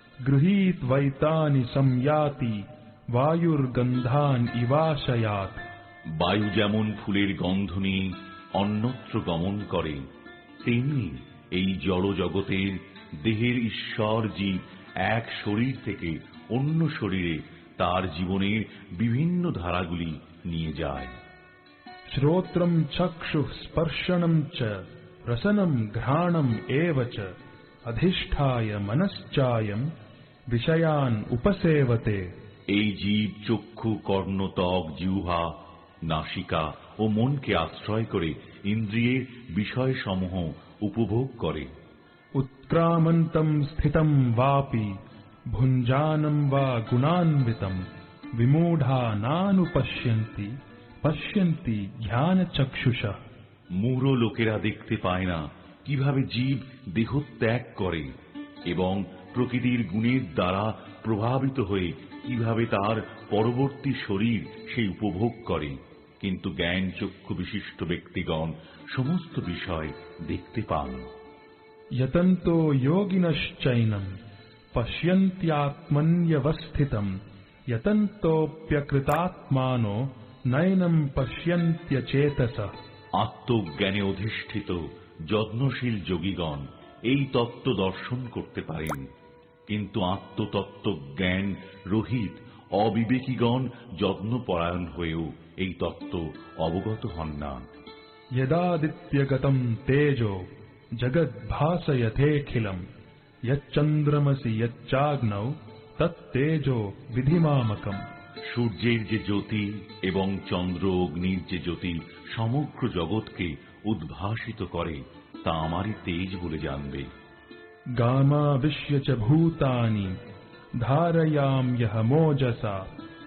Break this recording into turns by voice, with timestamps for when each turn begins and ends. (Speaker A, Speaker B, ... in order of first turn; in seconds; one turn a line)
Speaker A: 0.2-5.6
Speaker B: 6.2-10.0
Speaker B: 10.6-21.2
Speaker A: 22.1-27.3
Speaker A: 27.9-29.9
Speaker A: 30.5-32.3
Speaker B: 32.7-35.5
Speaker B: 36.0-41.7
Speaker A: 42.4-44.9
Speaker A: 45.5-47.8
Speaker A: 48.4-53.2
Speaker B: 53.7-58.1
Speaker B: 58.7-71.0
Speaker A: 72.0-74.1
Speaker A: 74.7-77.1
Speaker A: 77.7-82.7
Speaker B: 83.2-89.0
Speaker B: 89.7-97.6
Speaker A: 98.4-102.8
Speaker A: 103.5-108.0
Speaker B: 108.5-117.1
Speaker A: 118.0-120.1
Speaker A: 120.8-122.9